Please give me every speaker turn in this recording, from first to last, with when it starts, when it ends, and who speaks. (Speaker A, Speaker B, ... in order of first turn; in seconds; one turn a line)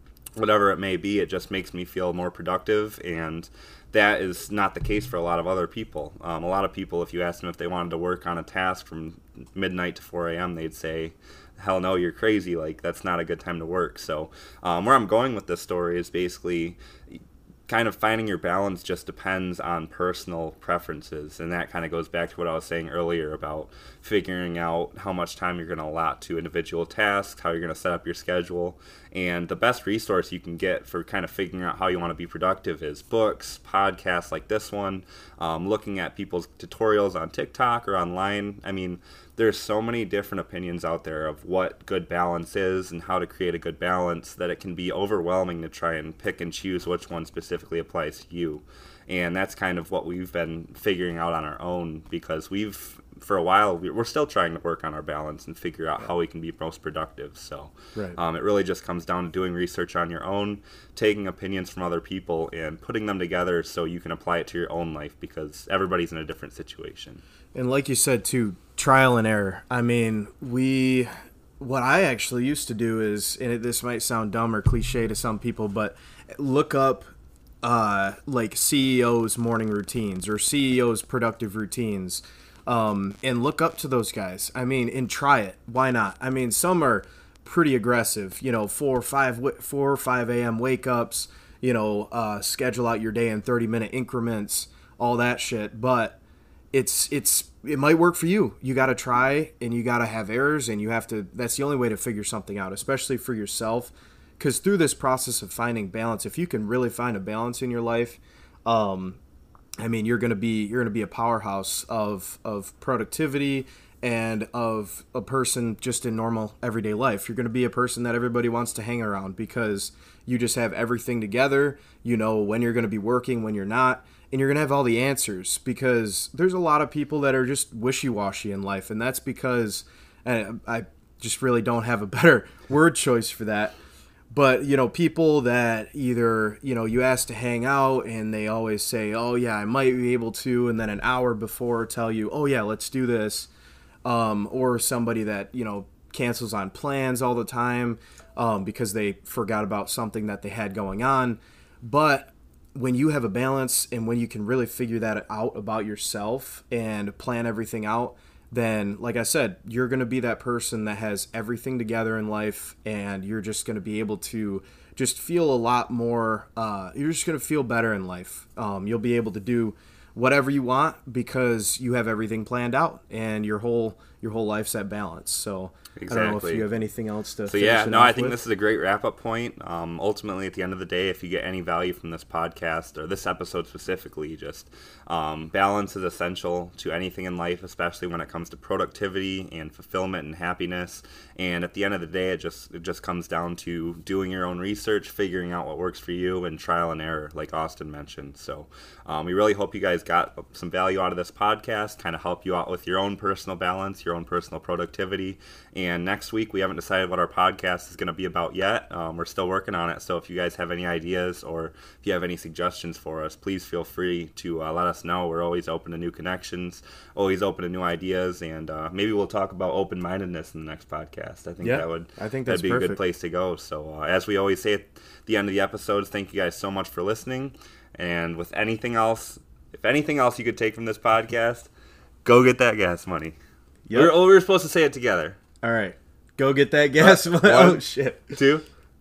Speaker A: 0.4-67.2
Speaker B: 67.5-77.1
Speaker B: 77.6-96.2
Speaker B: 96.7-109.2
Speaker B: 109.8-133.8
Speaker B: 134.3-143.5
Speaker B: 144.0-178.4
Speaker A: 176.0-176.7
Speaker A: 177.5-231.7
Speaker B: 221.6-223.0
Speaker A: 232.2-233.3
Speaker B: 233.9-234.2
Speaker A: 233.9-235.4
Speaker B: 235.6-238.4
Speaker A: 237.0-238.7